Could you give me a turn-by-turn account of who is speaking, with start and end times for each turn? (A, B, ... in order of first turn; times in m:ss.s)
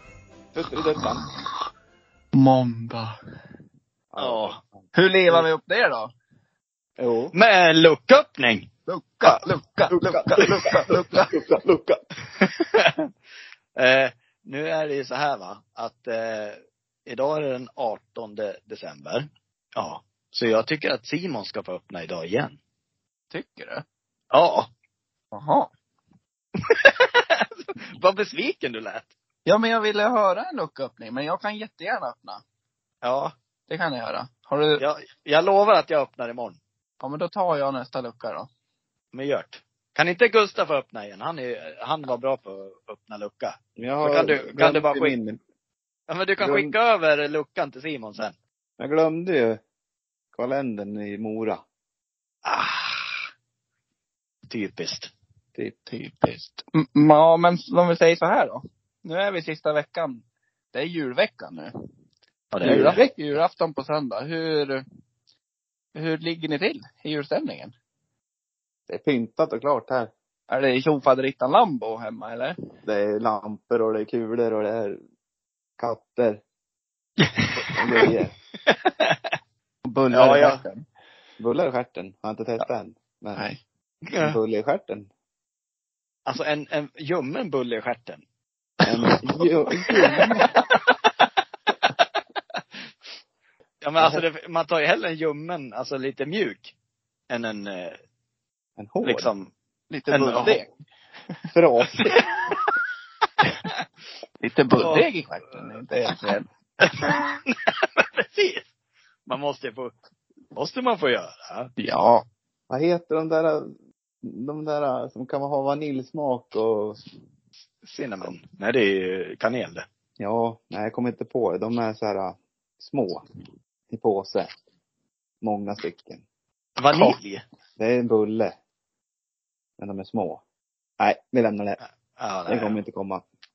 0:00.5-0:01.3 A
0:02.3-0:03.1 B
0:04.1-0:04.8 A
0:04.2-0:04.6 C
0:04.9-0:06.1 B
0:07.0-0:07.3 A
0:07.3-0:08.7 C
0:08.9-0:11.3 B
0:09.9-0:12.0 A
0:10.0-0:10.8 C
0:12.4-0:13.0 C
0:13.8-0:22.6 C
0:23.3-0:23.8 B
0:24.3-0:24.7 C
0:25.3-0:25.7 B
0:26.6-0:29.1 C
0:29.4-0:32.4 B
0:33.0-0:33.3 C
0:33.7-0:34.8 B
0:34.8-0:36.6 C
0:37.0-0:38.5 B
0:39.1-0:45.2 C
0:43.8-0:45.4 A
0:46.1-0:48.3 C
0:46.4-0:46.7 A
0:48.8-0:49.6 A
0:50.3-0:51.6 A
0:52.4-0:53.2 C
0:54.5-0:55.1 C
0:55.9-1:00.2 B
1:00.7-1:01.7 B
1:02.5-1:03.0 C
1:02.6-1:04.8 B
1:02.6-1:03.0 A
1:05.9-1:07.7 B
1:08.9-1:10.1 A
1:10.5-1:12.5 B
1:12.8-1:15.0 A
1:15.8-1:16.4 A
1:17.6-1:18.1 C
1:17.6-1:18.3 A
1:18.7-1:19.2 C
1:19.8-1:20.8 B
1:20.1-1:20.6 C
1:21.4-1:23.5 A
1:24.1-1:24.4 C
1:24.2-1:25.1 A
1:26.2-1:28.2 C
1:28.8-1:30.5 A
1:29.1-1:30.3 B
1:30.5-1:30.8 C
1:33.8-1:36.7 C
1:37.3-1:38.0 C
1:38.8-1:39.3 A
1:39.0-1:39.5 C
1:39.9-1:40.7 B
1:40.1-1:40.6 C
1:41.5-1:42.2 A
1:42.2-1:42.6 C
1:44.4-1:46.4 B
1:44.8-1:45.1 C
1:46.8-1:48.6 C
1:49.3-1:49.9 C
1:50.5-1:51.7 C
1:51.8-1:52.2 B
1:52.7-1:53.7 A
1:54.2-1:57.0 A
1:57.8-1:59.8 C
2:00.2-2:03.2 A
2:03.9-2:04.5 A
2:05.4-2:06.2 A
2:06.8-2:07.4 C
2:07.8-2:08.5 A
2:09.8-2:10.4 A
2:11.0-2:11.8 A
2:11.8-2:12.8 C
2:12.5-2:13.2 A